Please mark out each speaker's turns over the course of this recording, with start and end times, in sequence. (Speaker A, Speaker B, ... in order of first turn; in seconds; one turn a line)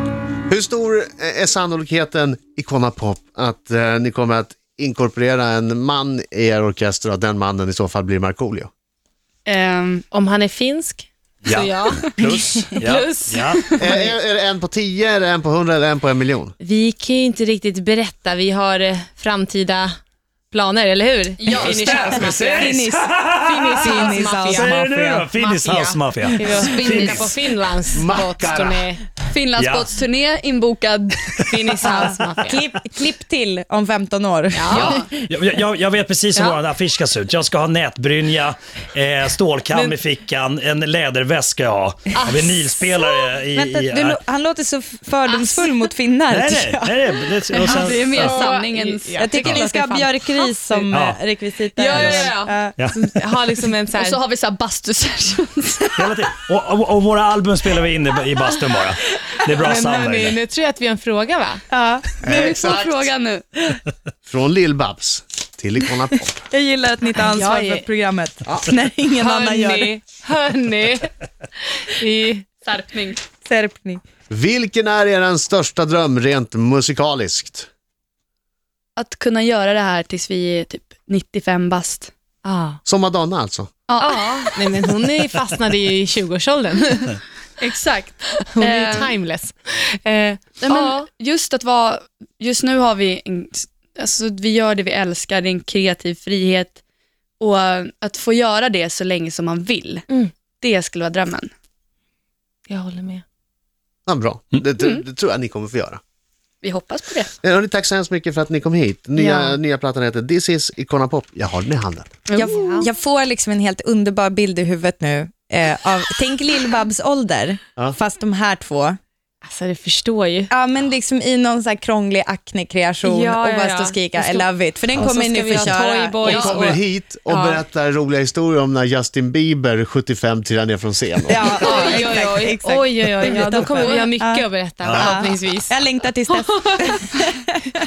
Speaker A: 0.5-8.7
Speaker B: 9.4-10.0
Speaker C: 10.1-14.1
Speaker D: 11.4-13.8
Speaker A: 13.8-16.5
Speaker C: 16.6-19.9
Speaker C: 20.5-22.8
Speaker B: 21.4-22.3
Speaker D: 21.6-27.4
Speaker E: 22.2-23.1
Speaker C: 23.4-29.0
Speaker E: 23.7-25.3
Speaker B: 26.8-27.2
Speaker A: 27.9-28.9
Speaker B: 29.3-31.3
Speaker D: 29.6-29.9
Speaker D: 31.3-31.7
Speaker C: 31.4-32.6
Speaker E: 31.9-35.1
Speaker C: 34.5-35.0
Speaker D: 34.7-44.2
Speaker E: 43.5-47.0
Speaker D: 46.3-48.5
Speaker C: 47.5-50.9
Speaker B: 47.6-49.6
Speaker E: 49.2-52.8
Speaker D: 49.4-49.6
Speaker D: 50.9-51.2
Speaker B: 51.7-52.6
Speaker D: 51.9-53.0
Speaker C: 52.9-54.2
Speaker B: 53.9-56.0
Speaker D: 55.9-60.4
Speaker C: 59.5-61.6
Speaker E: 61.7-62.3
Speaker A: 62.2-63.1
Speaker B: 62.3-63.4
Speaker A: 64.2-66.4
Speaker E: 66.5-70.0
Speaker C: 67.1-67.8
Speaker C: 69.1-71.1
Speaker C: 72.0-72.4
Speaker B: 72.6-73.2
Speaker E: 73.4-74.0
Speaker A: 74.3-77.7
Speaker B: 79.0-82.1
Speaker C: 82.4-82.8
Speaker A: 82.8-83.8
Speaker B: 83.9-84.5
Speaker C: 84.0-87.2
Speaker B: 87.6-89.1
Speaker C: 88.5-91.0
Speaker B: 90.6-96.8
Speaker B: 97.4-100.1
Speaker B: 100.6-101.5
Speaker C: 102.7-103.2
Speaker A: 104.1-106.0
Speaker D: 104.5-104.8
Speaker B: 106.6-107.3
Speaker A: 107.4-112.2
Speaker C: 109.2-109.6
Speaker E: 112.3-119.0
Speaker C: 112.4-112.9
Speaker C: 119.4-120.5
Speaker E: 120.5-126.7
Speaker C: 123.0-127.6
Speaker A: 126.2-131.5
Speaker E: 131.3-137.8
Speaker C: 131.5-135.8
Speaker B: 133.3-133.9
Speaker D: 134.8-135.1
Speaker C: 136.3-136.8